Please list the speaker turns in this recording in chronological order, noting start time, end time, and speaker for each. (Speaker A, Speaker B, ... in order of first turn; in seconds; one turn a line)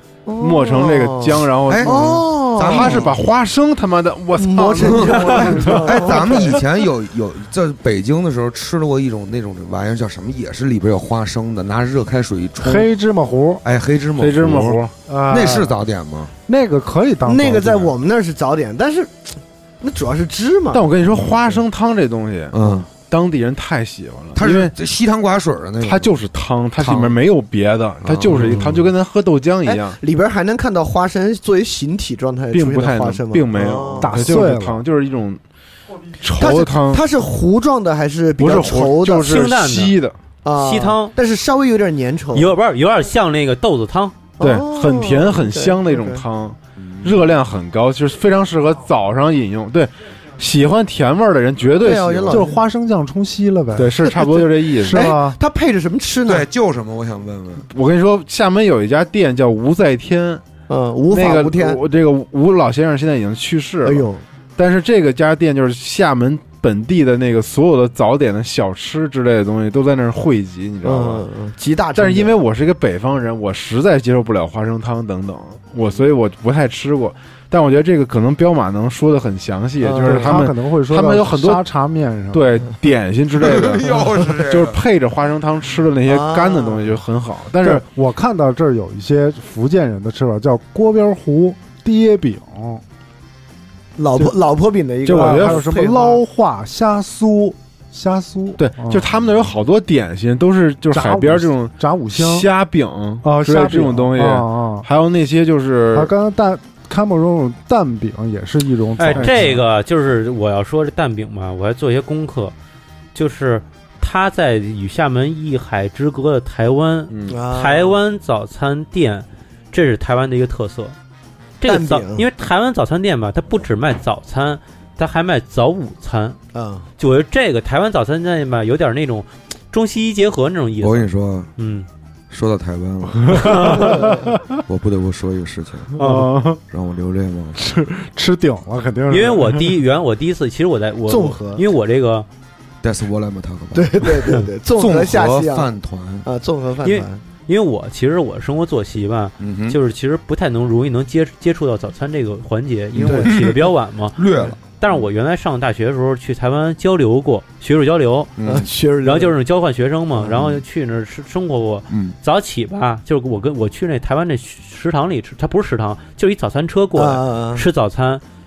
Speaker A: 0.2-3.2
Speaker B: 0.4-5.7
Speaker C: 1.7-3.1
Speaker A: 4.3-6.6
Speaker C: 4.8-12.9
Speaker D: 5.6-6.3
Speaker D: 12.6-13.6
Speaker C: 13.6-16.3
Speaker B: 14.2-14.9
Speaker D: 15.1-15.7
Speaker D: 16.5-17.9
Speaker A: 17.2-21.0
Speaker B: 20.7-24.7
Speaker C: 22.5-22.9
Speaker C: 24.4-26.1
Speaker B: 25.8-30.0
Speaker C: 26.8-27.1
Speaker C: 28.0-28.9
Speaker A: 29.6-34.5
Speaker B: 32.5-35.4
Speaker D: 34.0-34.8
Speaker B: 36.2-37.0
Speaker A: 36.4-39.5
Speaker B: 38.4-40.1
Speaker E: 39.2-40.0
Speaker A: 40.4-42.5
Speaker E: 40.6-41.1
Speaker E: 42.3-44.2
Speaker A: 44.4-46.2
Speaker B: 44.4-52.5
Speaker C: 46.8-47.3
Speaker A: 51.8-52.5
Speaker D: 52.3-54.2
Speaker B: 53.7-55.1
Speaker A: 54.2-56.5
Speaker D: 54.8-55.4
Speaker C: 56.2-57.6
Speaker B: 57.6-60.4
Speaker A: 60.7-61.8
Speaker B: 61.1-71.2
Speaker A: 63.8-64.2
Speaker A: 70.8-72.4
Speaker B: 71.9-81.6
Speaker A: 79.8-80.4
Speaker D: 80.0-82.6
Speaker B: 82.3-87.8
Speaker C: 83.4-84.8
Speaker A: 86.0-87.0
Speaker D: 87.6-92.8
Speaker A: 94.0-96.2
Speaker D: 95.0-99.1
Speaker B: 95.1-95.6
Speaker B: 98.6-106.1
Speaker D: 100.9-102.5
Speaker D: 103.2-104.9
Speaker D: 105.9-109.6
Speaker E: 109.0-112.5
Speaker B: 109.0-109.6
Speaker E: 113.1-120.9
Speaker B: 117.1-117.4
Speaker A: 117.3-118.0
Speaker E: 121.6-126.4
Speaker A: 121.6-122.3
Speaker A: 126.5-126.8
Speaker E: 127.0-131.9
Speaker C: 130.8-131.5
Speaker C: 132.3-135.9
Speaker D: 133.3-134.4
Speaker A: 133.7-134.2
Speaker D: 135.9-136.6
Speaker E: 136.0-136.3
Speaker C: 136.7-137.6
Speaker D: 137.6-139.8
Speaker E: 139.1-142.3
Speaker A: 141.1-141.6
Speaker C: 142.8-146.2
Speaker A: 143.7-145.7
Speaker A: 146.2-147.2
Speaker E: 146.8-154.2
Speaker C: 149.4-149.8
Speaker C: 152.9-155.0
Speaker A: 153.0-153.3
Speaker E: 154.8-158.3
Speaker C: 158.4-158.7
Speaker A: 158.4-159.3
Speaker E: 159.0-168.2
Speaker A: 160.2-160.5
Speaker C: 161.9-162.2
Speaker A: 166.9-167.7